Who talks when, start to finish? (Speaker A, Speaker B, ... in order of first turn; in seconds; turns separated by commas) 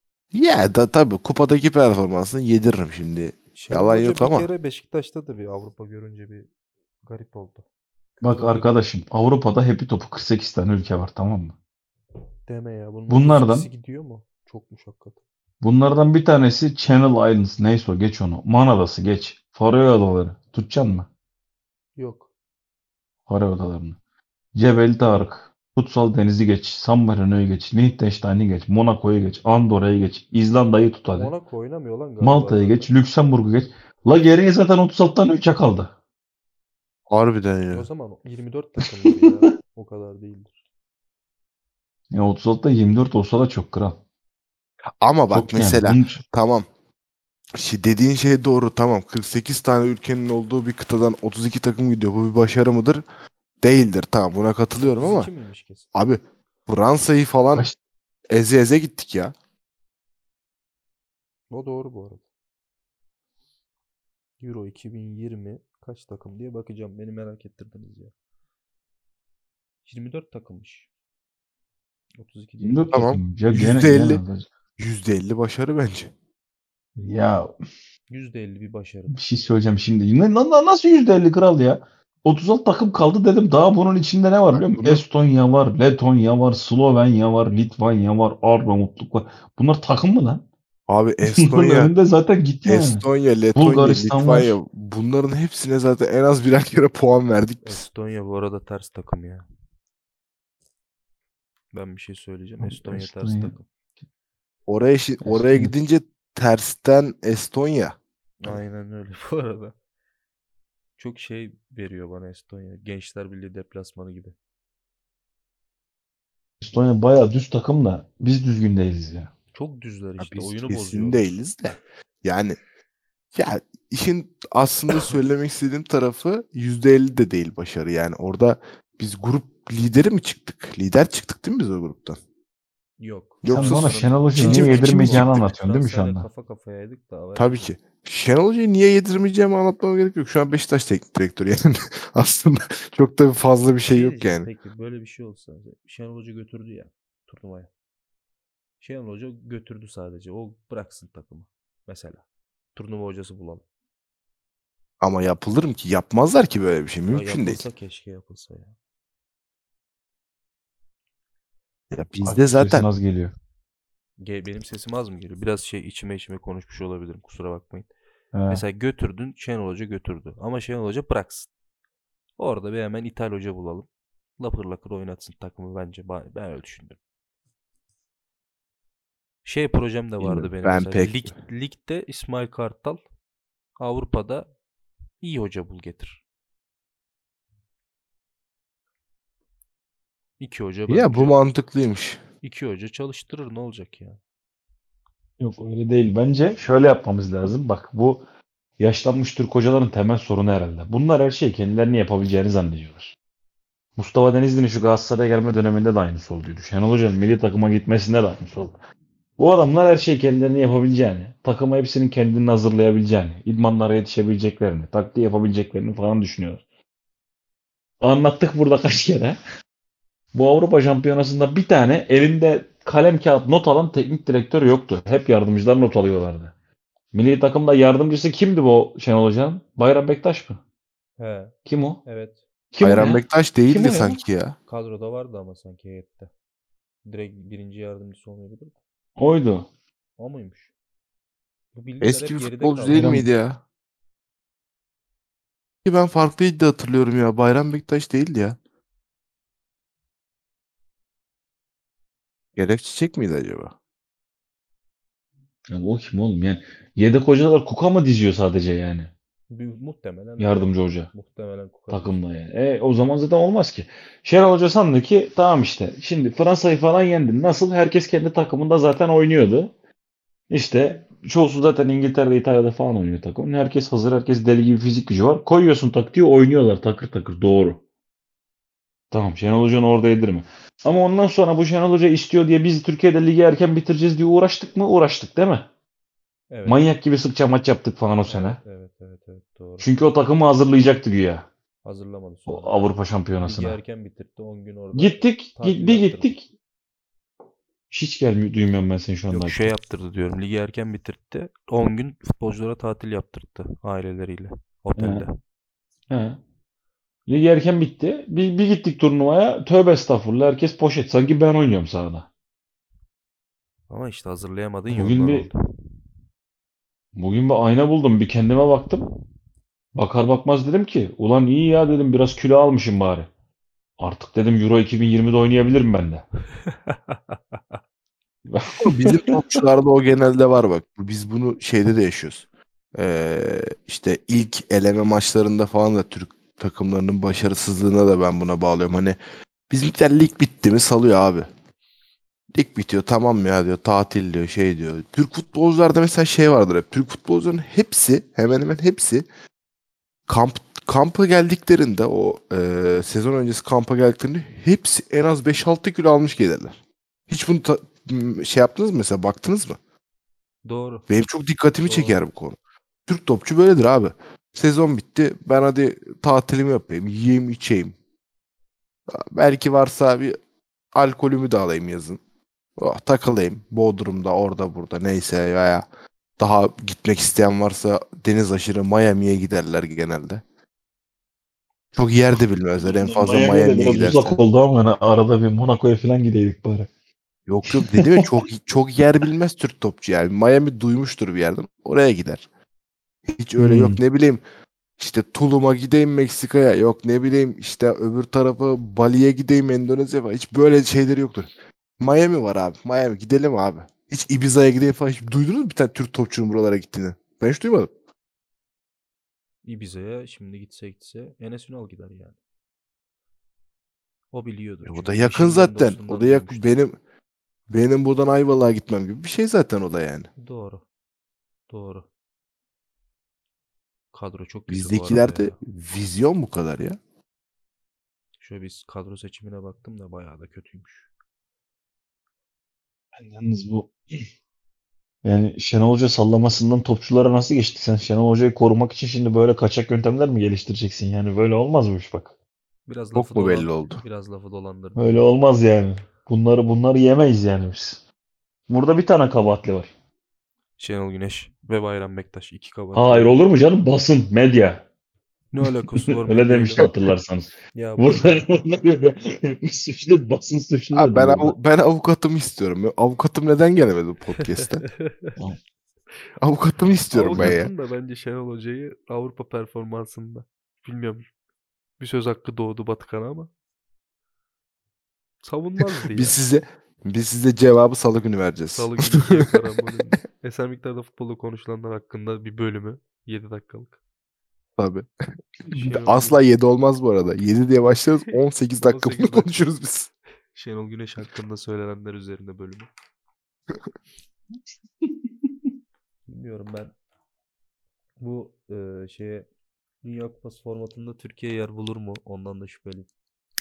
Speaker A: 0.3-4.5, Speaker B: 3.5-6.5, Speaker B: 7.0-7.6, Speaker C: 8.2-11.6, Speaker B: 8.2-8.7, Speaker B: 12.5-15.2, Speaker C: 13.1-13.7, Speaker C: 15.6-21.1, Speaker B: 22.0-22.3, Speaker C: 23.3-24.0, Speaker C: 24.5-31.3, Speaker B: 31.1-32.9, Speaker C: 32.2-35.9, Speaker A: 37.1-37.9, Speaker B: 37.7-40.6, Speaker C: 42.1-44.0, Speaker A: 45.0-46.7, Speaker C: 45.3-46.2, Speaker A: 47.5-53.0, Speaker A: 53.6-55.3, Speaker B: 54.8-55.9, Speaker A: 55.9-57.7, Speaker A: 58.3-59.3, Speaker B: 61.5-62.2, Speaker B: 64.4-68.1, Speaker B: 69.8-70.9, Speaker B: 72.2-72.9, Speaker C: 72.6-74.5, Speaker A: 72.9-74.2, Speaker A: 74.8-76.1, Speaker C: 77.0-77.5, Speaker B: 78.1-79.2, Speaker C: 79.1-90.4, Speaker A: 84.6-85.0, Speaker A: 90.9-91.9, Speaker C: 91.2-93.0, Speaker A: 92.7-97.8, Speaker C: 93.6-94.5, Speaker B: 97.6-99.5, Speaker B: 101.7-103.7, Speaker C: 102.6-103.5, Speaker A: 104.7-108.6, Speaker C: 105.2-105.7, Speaker B: 108.4-109.8, Speaker B: 111.0-114.3, Speaker C: 116.6-119.3, Speaker B: 119.5-121.3, Speaker A: 120.2-122.6, Speaker A: 123.3-132.2, Speaker B: 133.0-137.8, Speaker A: 133.4-135.5, Speaker C: 133.5-136.3, Speaker A: 137.3-144.5, Speaker B: 143.9-147.7, Speaker B: 148.8-152.2, Speaker B: 152.8-153.6, Speaker A: 155.0-157.7, Speaker B: 157.1-158.8, Speaker A: 161.9-162.9, Speaker C: 162.2-163.3, Speaker B: 164.2-167.9, Speaker C: 168.3-168.6, Speaker B: 168.5-171.5, Speaker B: 172.4-173.9, Speaker B: 174.4-177.0, Speaker B: 179.4-183.0, Speaker A: 180.2-181.3, Speaker B: 183.8-184.5, Speaker B: 185.2-186.2, Speaker B: 190.4-191.4, Speaker A: 190.9-192.2, Speaker B: 192.4-194.2, Speaker C: 195.4-198.2, Speaker C: 198.8-203.2, Speaker C: 204.0-208.8, Speaker C: 209.4-216.6, Speaker C: 218.0-219.4, Speaker C: 220.3-226.5, Speaker C: 227.1-230.6, Speaker B: 231.2-232.4, Speaker C: 231.7-232.0, Speaker C: 232.7-234.2, Speaker A: 232.8-234.6, Speaker B: 234.7-236.3, Speaker B: 237.1-238.8, Speaker C: 239.2-239.7, Speaker B: 240.2-240.7, Speaker B: 241.7-243.1, Speaker A: 242.0-243.6, Speaker C: 242.9-243.3, Speaker A: 245.8-248.6, Speaker A: 252.6-253.7, Speaker C: 255.7-259.1, Speaker B: 259.5-262.2, Speaker C: 260.4-261.1, Speaker C: 261.9-269.7, Speaker C: 270.5-277.8, Speaker C: 279.1-285.7, Speaker B: 286.5-286.9, Speaker C: 286.6-288.6, Speaker B: 288.3-289.9, Speaker C: 289.8-291.5, Speaker B: 291.8-292.9, Speaker C: 292.5-293.8, Speaker B: 293.4-296.4, Speaker C: 294.9-296.5, Speaker C: 297.9-299.7, Speaker B: 299.3-305.3, Speaker C: 305.0-305.2, Speaker C: 306.1-306.4, Speaker C: 307.3-312.3, Speaker B: 313.9-315.5, Speaker C: 314.9-315.5, Speaker C: 317.1-319.0, Speaker C: 319.9-323.3, Speaker C: 324.0-326.3, Speaker B: 326.6-327.8, Speaker C: 328.5-329.4, Speaker A: 328.8-339.2, Speaker A: 339.7-341.5, Speaker A: 342.5-349.3, Speaker A: 350.3-356.8, Speaker A: 357.3-359.8, Speaker B: 360.6-361.0, Speaker A: 361.1-367.9, Speaker B: 361.9-362.3, Speaker A: 369.1-370.4, Speaker A: 370.9-372.2, Speaker A: 372.8-375.9, Speaker A: 376.4-380.4, Speaker A: 381.9-384.4, Speaker C: 383.0-386.9, Speaker A: 387.5-392.4, Speaker C: 387.7-388.3, Speaker A: 393.4-394.4, Speaker C: 393.6-394.0, Speaker A: 395.0-407.9, Speaker B: 409.6-412.4, Speaker B: 414.3-416.7, Speaker A: 414.9-417.0, Speaker A: 417.7-420.3, Speaker B: 420.4-420.8, Speaker B: 421.7-422.1, Speaker B: 424.1-425.6, Speaker A: 424.7-427.0, Speaker B: 428.4-431.1, Speaker C: 433.1-434.3, Speaker C: 435.2-442.3, Speaker B: 442.9-445.2, Speaker A: 443.1-444.0, Speaker C: 445.0-448.0, Speaker C: 448.7-449.9, Speaker B: 450.8-453.3, Speaker C: 452.9-454.9, Speaker B: 455.5-456.9, Speaker C: 456.1-461.6, Speaker B: 457.7-458.4, Speaker A: 460.9-464.9, Speaker B: 464.6-465.4, Speaker A: 466.4-467.7, Speaker B: 467.1-471.3, Speaker B: 472.0-473.5, Speaker B: 475.4-476.4, Speaker A: 476.1-479.5, Speaker B: 478.7-484.0, Speaker A: 484.8-485.1, Speaker B: 485.7-486.5, Speaker A: 485.8-490.1, Speaker B: 488.3-489.7, Speaker B: 490.5-492.9, Speaker B: 496.3-496.9, Speaker B: 498.2-499.5, Speaker B: 500.0-503.1